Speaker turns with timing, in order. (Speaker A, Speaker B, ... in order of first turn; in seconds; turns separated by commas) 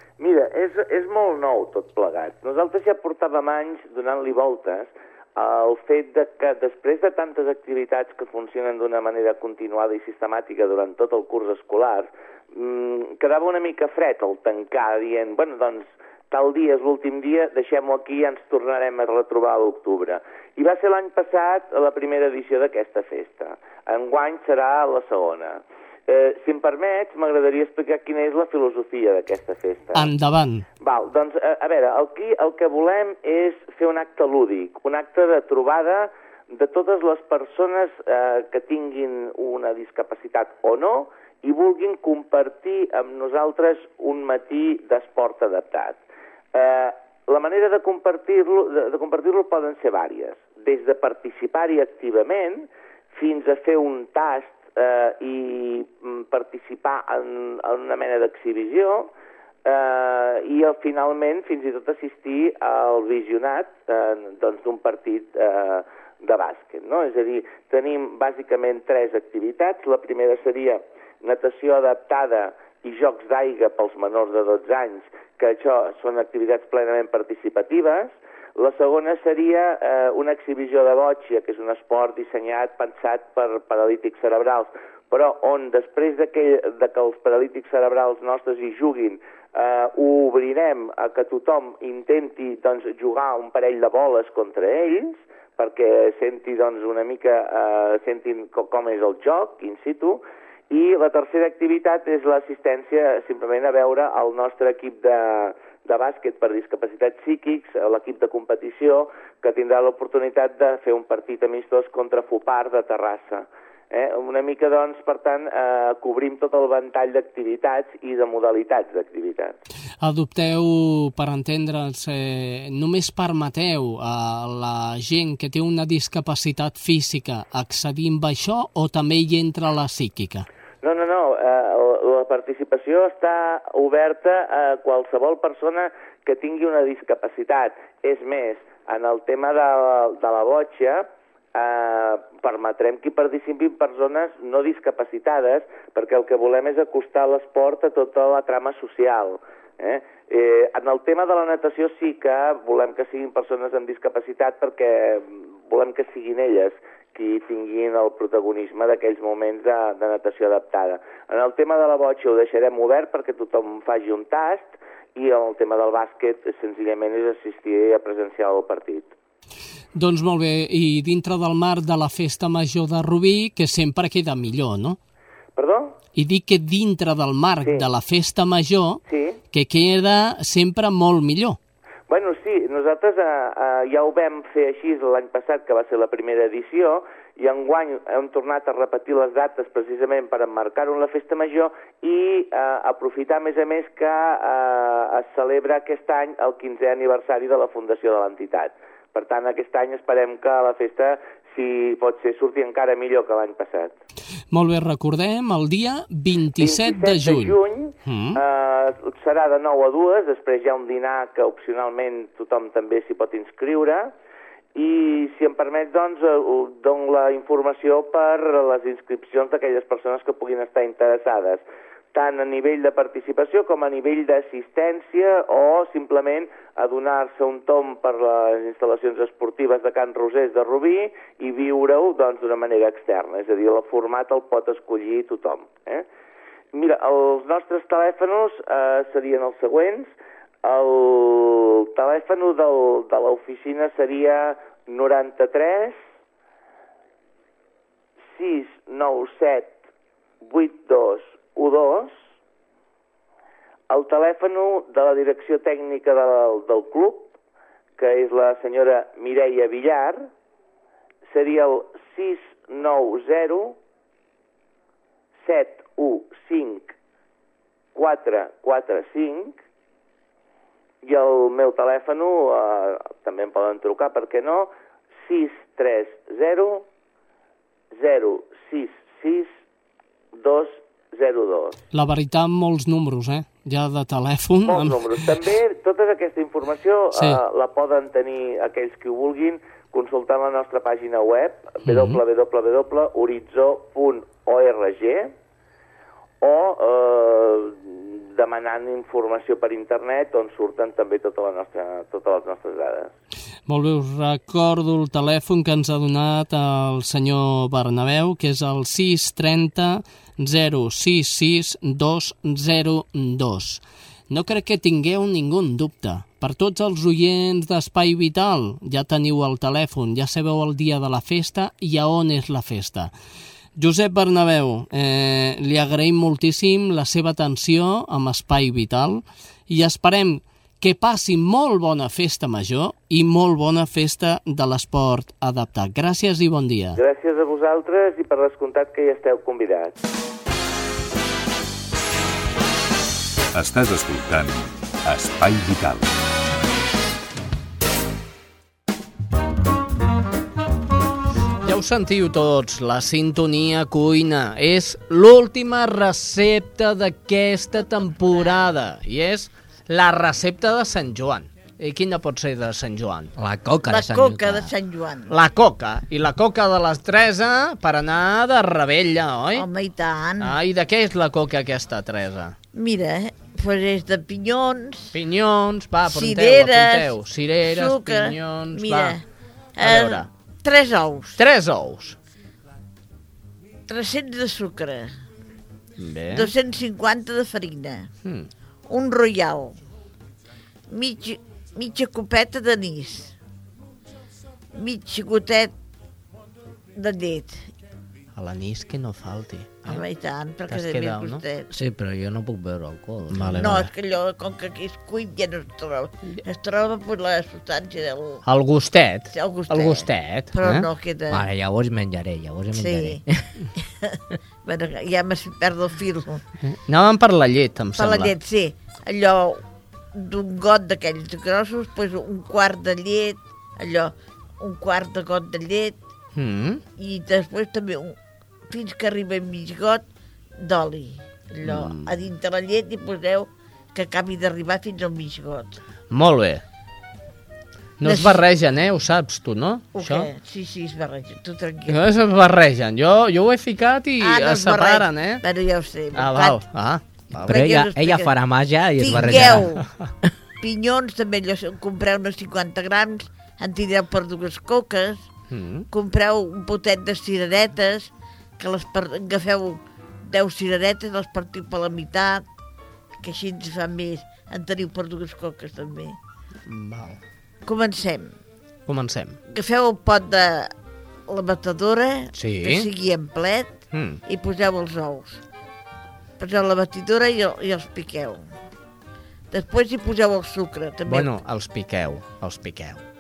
Speaker A: 0.2-30.1, Speaker B: 29.9-30.7, Speaker A: 30.8-46.0, Speaker A: 46.5-59.1, Speaker A: 59.7-100.2, Speaker A: 100.7-119.5, Speaker B: 120.0-130.5, Speaker A: 130.8-169.1, Speaker B: 169.9-175.0, Speaker A: 175.6-175.9, Speaker B: 176.2-181.6, Speaker A: 179.1-179.4, Speaker A: 182.1-203.9, Speaker B: 204.5-208.4, Speaker A: 206.6-214.1, Speaker A: 214.8-221.6, Speaker A: 222.1-236.1, Speaker A: 236.7-240.1, Speaker A: 240.6-246.0, Speaker A: 248.3-249.8, Speaker A: 250.5-252.1, Speaker A: 253.9-257.3, Speaker A: 258.0-260.2, Speaker A: 261.3-263.8, Speaker A: 265.4-266.9, Speaker A: 267.9-269.6, Speaker A: 271.0-274.7, Speaker A: 275.3-276.9, Speaker A: 278.0-279.5, Speaker A: 280.4-281.8, Speaker B: 281.9-285.1, Speaker A: 284.7-295.3, Speaker B: 287.1-287.4, Speaker B: 291.9-292.2, Speaker A: 296.4-303.1, Speaker B: 303.7-323.1, Speaker B: 323.8-337.0, Speaker A: 337.0-339.9, Speaker C: 343.5-346.1, Speaker B: 351.6-363.3, Speaker D: 363.4-364.7, Speaker E: 363.9-365.3, Speaker B: 365.3-369.7, Speaker E: 369.5-370.6, Speaker B: 370.4-372.6, Speaker E: 372.7-375.1, Speaker B: 375.1-379.2, Speaker E: 376.1-377.1, Speaker E: 377.6-379.2, Speaker E: 379.8-381.4, Speaker B: 379.8-380.3, Speaker B: 381.4-382.2, Speaker E: 383.9-385.1, Speaker B: 386.0-386.5, Speaker E: 386.3-388.1, Speaker E: 388.9-389.8, Speaker E: 390.9-393.4, Speaker E: 394.8-395.7, Speaker E: 397.0-397.7, Speaker B: 398.4-400.0, Speaker E: 399.9-401.7, Speaker B: 400.7-401.4, Speaker D: 401.7-403.8, Speaker B: 403.3-403.9, Speaker E: 403.5-408.4, Speaker B: 408.5-410.9, Speaker E: 409.3-411.4, Speaker D: 411.3-413.4, Speaker E: 412.7-413.2, Speaker E: 414.0-416.4, Speaker B: 416.7-418.3, Speaker E: 418.0-419.6, Speaker E: 420.1-426.0, Speaker B: 426.4-426.8, Speaker E: 427.0-428.2, Speaker E: 428.7-430.0, Speaker E: 430.6-435.8, Speaker B: 431.6-432.1, Speaker B: 436.1-436.6, Speaker B: 438.0-440.3, Speaker E: 438.0-438.4, Speaker E: 439.9-442.0, Speaker B: 441.9-445.4, Speaker E: 444.2-446.6, Speaker B: 446.1-447.6, Speaker E: 447.4-448.3, Speaker D: 447.5-449.7, Speaker E: 449.0-449.9, Speaker B: 449.1-449.7, Speaker E: 450.6-455.2, Speaker B: 455.5-455.9, Speaker E: 455.9-462.4, Speaker E: 463.2-466.2, Speaker B: 466.7-467.2, Speaker E: 467.6-468.3, Speaker B: 468.9-469.4, Speaker E: 469.5-470.7, Speaker E: 471.3-473.7, Speaker B: 472.4-472.9, Speaker B: 473.9-474.2, Speaker E: 474.3-475.4, Speaker E: 476.4-478.5, Speaker E: 479.5-481.3, Speaker B: 481.1-483.0